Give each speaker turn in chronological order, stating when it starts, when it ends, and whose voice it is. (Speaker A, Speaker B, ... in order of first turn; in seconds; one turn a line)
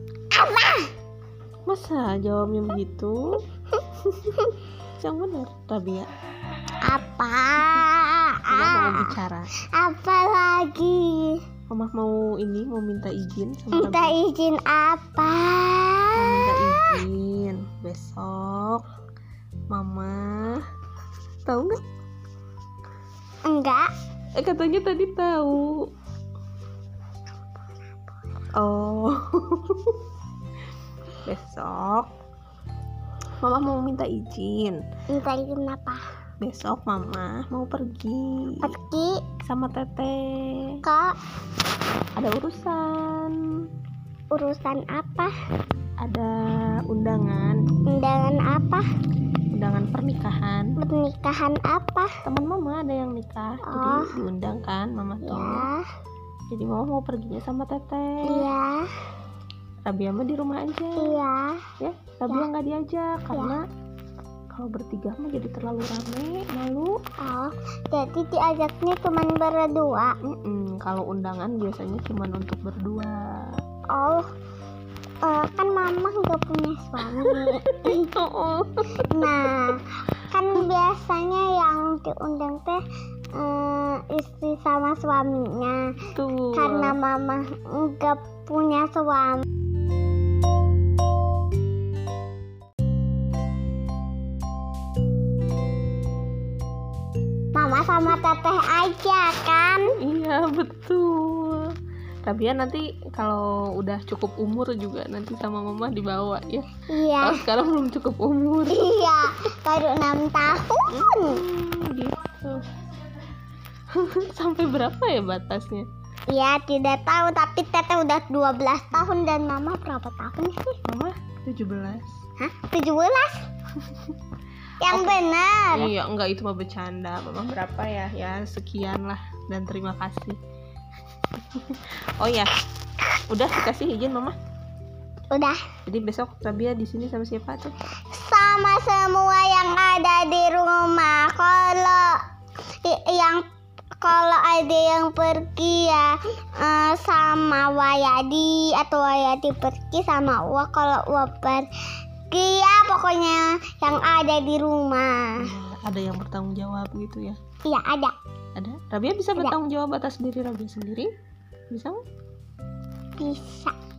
Speaker A: 0.3-0.9
Speaker B: 1.7-3.2
Speaker B: 4.0-4.4
Speaker B: 5.0-6.1
Speaker A: 6.8-9.2
Speaker B: 8.5-9.5
Speaker A: 9.7-11.4
Speaker B: 11.7-14.2
Speaker A: 13.7-17.0
Speaker B: 16.2-18.9
Speaker B: 19.7-20.6
Speaker B: 21.5-21.8
Speaker A: 23.5-23.9
Speaker B: 24.4-25.9
Speaker B: 28.6-30.1
Speaker B: 31.2-32.1
Speaker B: 33.4-34.8
Speaker A: 35.1-36.0
Speaker B: 36.4-38.8
Speaker A: 38.6-39.2
Speaker B: 39.4-40.8
Speaker A: 40.8-41.2
Speaker B: 42.2-43.4
Speaker A: 44.3-45.3
Speaker B: 46.0-47.6
Speaker A: 47.9-48.9
Speaker B: 49.5-50.8
Speaker A: 50.8-52.1
Speaker B: 52.2-55.7
Speaker A: 53.7-54.1
Speaker A: 55.2-55.8
Speaker B: 56.5-58.5
Speaker A: 58.3-58.9
Speaker B: 59.9-61.2
Speaker A: 61.0-61.5
Speaker B: 61.8-63.6
Speaker B: 64.5-67.0
Speaker A: 67.2-70.1
Speaker B: 70.2-73.6
Speaker A: 73.9-74.3
Speaker A: 75.2-78.1
Speaker B: 77.1-79.5
Speaker A: 79.1-82.8
Speaker A: 83.3-85.8
Speaker B: 86.1-87.0
Speaker A: 86.5-89.5
Speaker A: 97.5-99.9
Speaker B: 100.0-101.7
Speaker B: 102.2-108.9
Speaker A: 106.9-107.4
Speaker A: 108.7-111.4
Speaker B: 110.9-112.7
Speaker B: 113.9-115.9
Speaker A: 116.3-120.8
Speaker B: 120.9-122.2
Speaker A: 122.4-123.4
Speaker B: 123.8-124.2
Speaker A: 124.8-125.9
Speaker B: 124.9-125.2
Speaker B: 125.7-130.4
Speaker B: 131.4-132.5
Speaker B: 133.3-134.4
Speaker A: 135.3-135.6
Speaker B: 135.8-137.8
Speaker A: 138.1-142.2
Speaker A: 142.8-143.4
Speaker A: 144.0-151.7
Speaker A: 152.3-155.5
Speaker B: 155.4-157.4
Speaker A: 157.7-158.2
Speaker B: 158.6-161.1
Speaker B: 161.7-162.0
Speaker A: 163.2-163.8